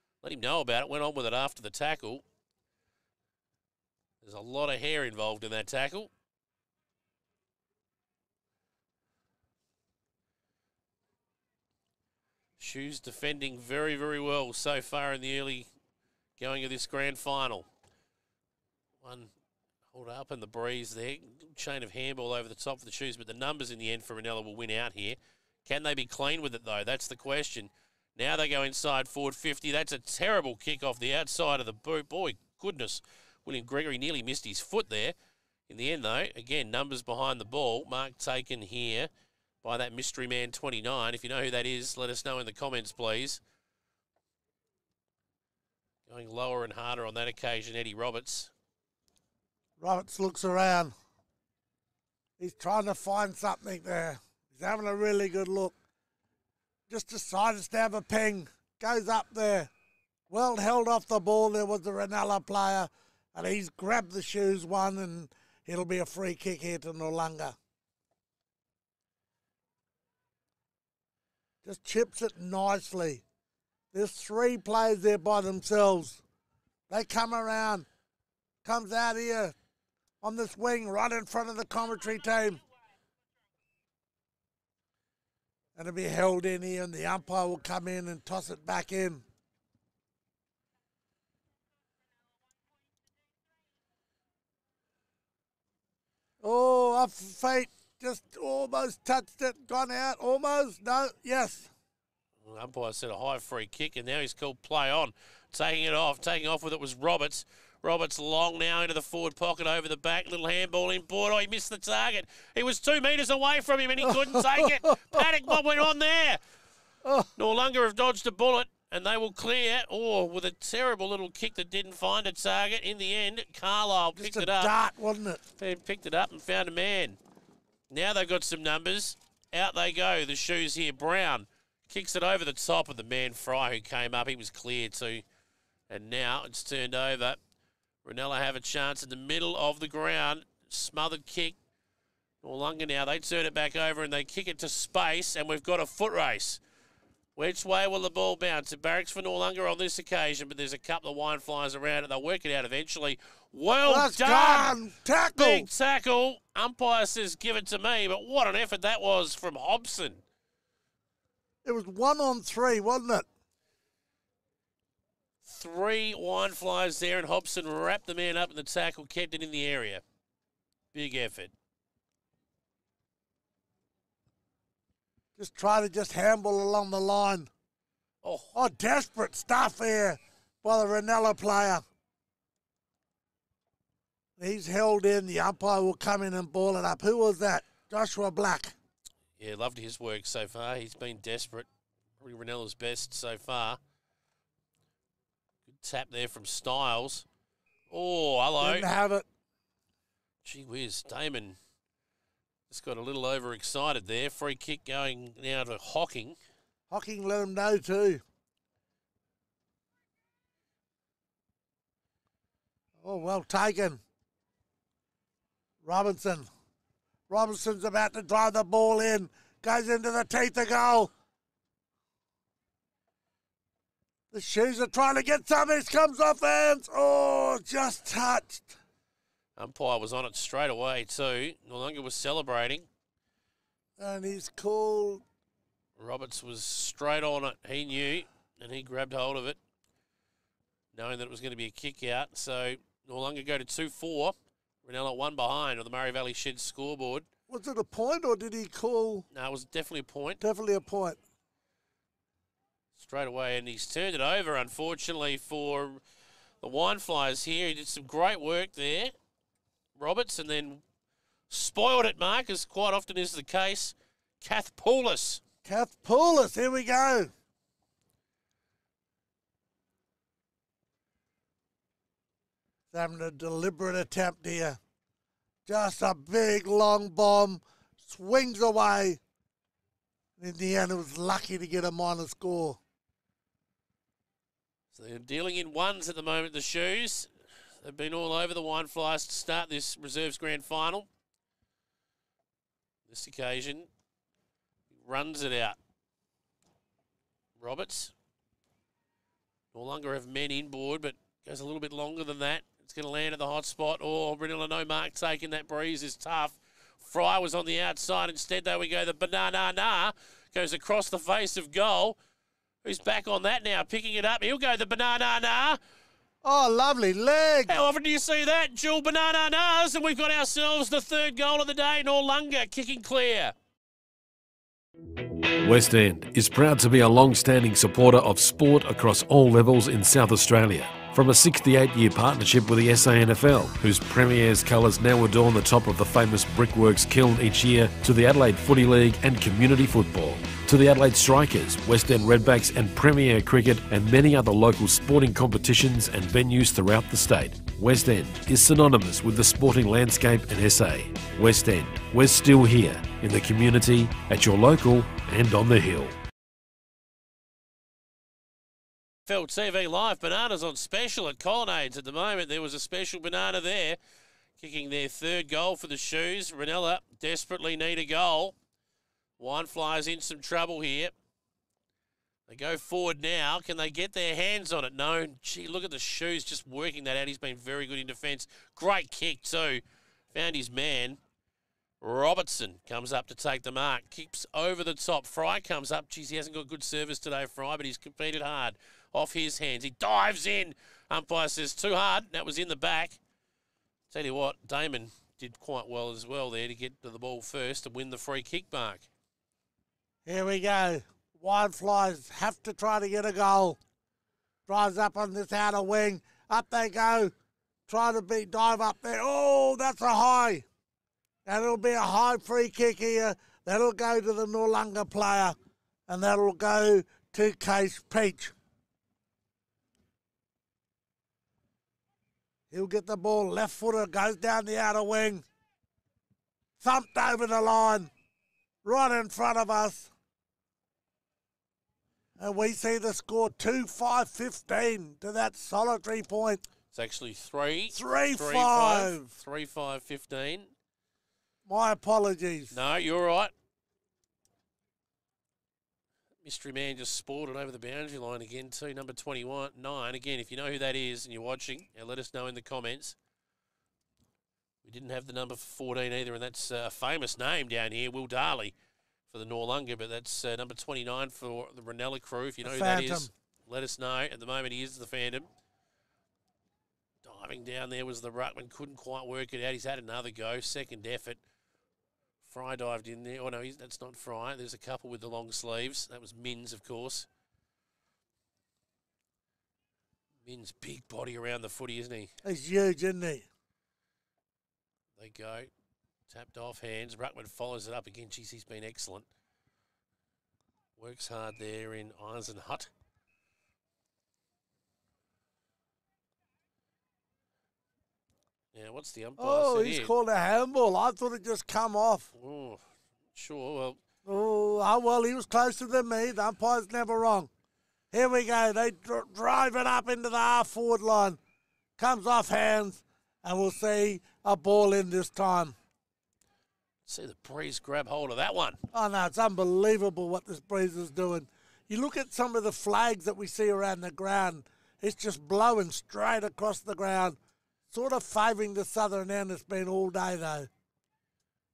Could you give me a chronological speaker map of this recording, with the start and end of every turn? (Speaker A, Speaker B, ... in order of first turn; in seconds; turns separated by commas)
Speaker A: 0.2-2.2, Speaker A: 4.2-6.1, Speaker A: 12.6-15.7, Speaker A: 16.4-17.7, Speaker A: 19.0-19.3, Speaker A: 19.9-35.1, Speaker A: 35.7-39.1, Speaker A: 39.6-43.4, Speaker A: 46.1-48.5, Speaker B: 49.8-50.9, Speaker B: 52.4-55.8, Speaker B: 56.9-59.7, Speaker B: 60.3-67.5, Speaker B: 71.6-73.2, Speaker B: 73.9-76.2, Speaker B: 76.9-77.9, Speaker B: 78.6-79.5, Speaker B: 80.2-82.6, Speaker B: 85.8-89.2, Speaker B: 96.4-101.7, Speaker A: 102.4-116.4, Speaker B: 114.0-115.5, Speaker B: 117.0-117.3, Speaker A: 117.3-124.7, Speaker B: 124.2-125.4, Speaker A: 125.6-127.2, Speaker A: 127.9-135.2, Speaker A: 135.9-137.4, Speaker A: 138.0-141.6, Speaker A: 142.4-146.6, Speaker A: 147.3-154.8, Speaker B: 153.8-155.7, Speaker A: 155.3-160.2, Speaker B: 161.6-163.2, Speaker A: 165.4-170.0, Speaker A: 170.9-171.5, Speaker B: 175.4-177.5, Speaker A: 178.2-178.5, Speaker B: 178.5-181.8, Speaker B: 184.4-188.8, Speaker A: 189.4-191.7, Speaker A: 192.2-193.8, Speaker A: 195.7-197.2, Speaker A: 197.9-198.9, Speaker B: 198.6-199.3, Speaker A: 200.4-201.6, Speaker A: 202.7-206.4, Speaker B: 206.9-208.2, Speaker B: 213.0-214.0, Speaker B: 215.8-216.5, Speaker B: 217.3-221.1, Speaker B: 224.3-228.8, Speaker A: 229.6-232.9, Speaker B: 234.0-235.2, Speaker A: 236.0-239.6, Speaker A: 240.9-247.3, Speaker B: 247.5-249.2, Speaker A: 249.3-250.4, Speaker B: 250.4-251.2, Speaker A: 253.0-256.0, Speaker A: 256.6-259.1, Speaker A: 259.9-260.8, Speaker A: 261.5-265.4, Speaker B: 265.6-267.3, Speaker B: 272.9-274.8, Speaker B: 275.6-279.2, Speaker B: 280.4-282.8, Speaker A: 284.9-287.3, Speaker A: 287.8-291.1, Speaker A: 293.1-293.9, Speaker A: 294.9-295.8, Speaker A: 297.6-298.1, Speaker A: 299.7-312.1, Speaker A: 312.8-315.8, Speaker B: 316.4-317.8, Speaker A: 317.7-323.5, Speaker C: 325.6-356.2, Speaker A: 359.3-364.0, Speaker A: 364.6-368.5, Speaker A: 369.4-371.1, Speaker A: 372.5-379.8, Speaker A: 380.3-381.2, Speaker A: 382.0-393.2, Speaker A: 394.1-399.1, Speaker B: 400.2-403.8, Speaker B: 404.7-407.3, Speaker B: 407.9-410.6, Speaker B: 411.4-415.6, Speaker B: 416.1-418.5, Speaker B: 422.7-425.4, Speaker B: 426.8-428.1, Speaker B: 428.8-430.1, Speaker B: 432.4-436.6, Speaker A: 436.9-440.7, Speaker B: 437.9-439.3, Speaker B: 441.6-442.7, Speaker A: 442.7-443.5, Speaker A: 446.4-453.1, Speaker A: 454.8-458.7, Speaker A: 459.3-465.5, Speaker B: 462.6-463.3, Speaker A: 467.2-471.4, Speaker A: 472.4-477.3, Speaker A: 480.4-482.3, Speaker B: 482.4-483.5, Speaker A: 485.2-485.7, Speaker A: 486.3-489.3, Speaker A: 491.0-492.9, Speaker A: 498.7-500.1, Speaker B: 499.4-502.3, Speaker A: 502.4-502.8, Speaker A: 503.3-504.0, Speaker B: 504.2-507.5, Speaker B: 508.1-511.4, Speaker B: 512.0-515.8, Speaker A: 517.1-518.8, Speaker B: 518.9-527.4, Speaker B: 527.9-530.7